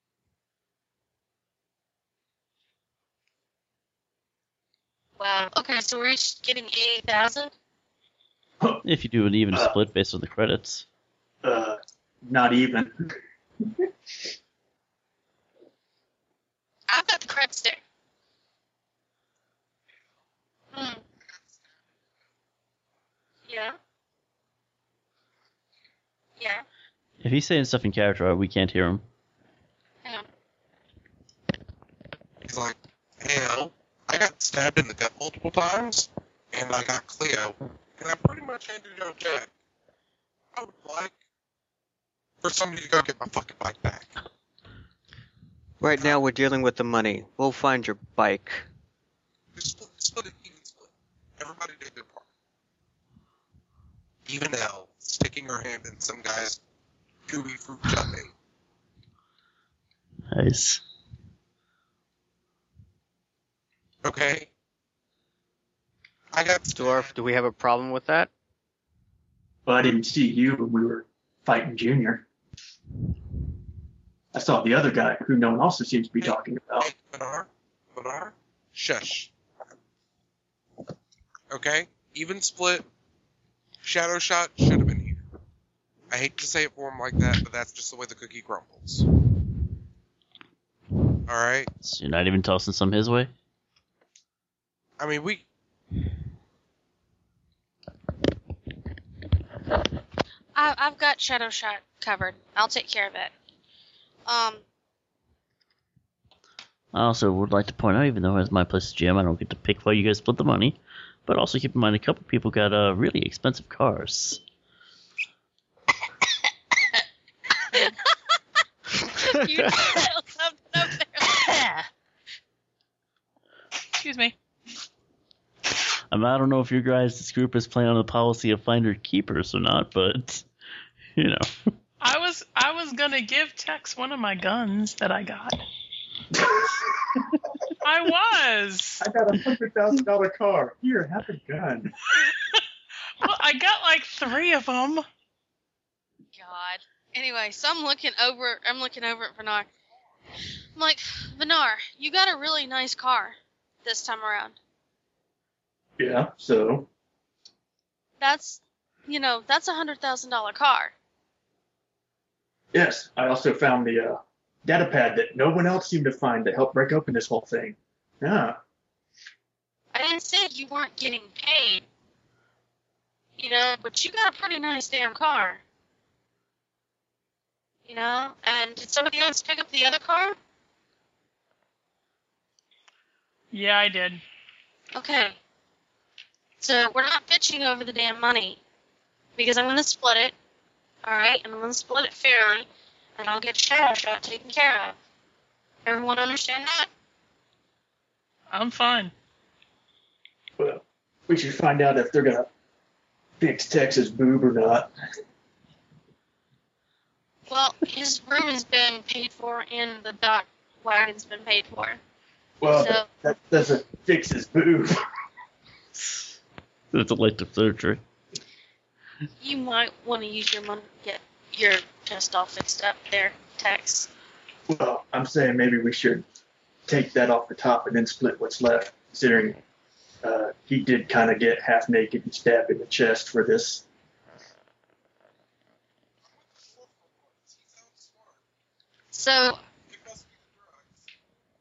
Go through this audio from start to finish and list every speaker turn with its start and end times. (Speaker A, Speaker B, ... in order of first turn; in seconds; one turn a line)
Speaker A: 5.2-7.5
Speaker B: 8.8-10.8
Speaker C: 11.4-13.1
Speaker A: 16.9-17.8
Speaker A: 20.7-21.0
Speaker A: 23.5-23.8
Speaker A: 26.4-26.6
Speaker B: 27.2-29.0
Speaker D: 32.4-39.5
Speaker D: 40.5-41.1
Speaker D: 42.4-44.1
Speaker E: 45.8-48.6
Speaker D: 49.5-52.2
Speaker D: 54.2-56.6
Speaker D: 57.3-58.3
Speaker B: 60.3-60.8
Speaker D: 64.0-64.5
Speaker D: 66.3-67.1
Speaker E: 66.8-68.3
Speaker C: 69.7-72.2
Speaker C: 74.3-76.9
Speaker D: 76.2-79.3
Speaker D: 81.5-82.8
Speaker D: 83.8-85.2
Speaker D: 86.1-89.0
Speaker D: 91.3-91.7
Speaker B: 91.8-93.3
Speaker D: 95.0-95.4
Speaker A: 100.5-103.3
Speaker A: 104.2-104.6
Speaker B: 106.9-114.4
Speaker A: 117.7-118.0
Speaker A: 119.0-121.8
Speaker F: 123.9-124.3
Speaker B: 126.1-130.4
Speaker B: 131.2-131.5
Speaker F: 132.0-135.6
Speaker C: 136.4-136.7
Speaker F: 137.8-139.1
Speaker C: 139.0-141.9
Speaker F: 142.1-142.6
Speaker F: 143.2-145.0
Speaker A: 146.3-149.7
Speaker A: 150.8-154.6
Speaker C: 156.0-156.9
Speaker A: 158.2-160.9
Speaker C: 162.7-168.6
Speaker A: 169.9-171.8
Speaker A: 173.4-175.6
Speaker A: 177.8-180.4
Speaker F: 183.5-184.2
Speaker A: 184.9-185.4
Speaker A: 186.6-188.6
Speaker A: 189.3-190.3
Speaker A: 191.0-194.9
Speaker A: 195.8-196.9
Speaker F: 198.5-199.1
Speaker C: 200.6-202.5
Speaker C: 203.4-204.9
Speaker A: 207.5-212.0
Speaker C: 212.6-215.0
Speaker A: 212.7-213.1
Speaker B: 216.9-218.0
Speaker A: 219.4-224.1
Speaker C: 224.7-226.2
Speaker C: 226.9-229.6
Speaker C: 230.2-233.8
Speaker D: 236.3-238.4
Speaker A: 239.1-239.6
Speaker D: 239.9-240.9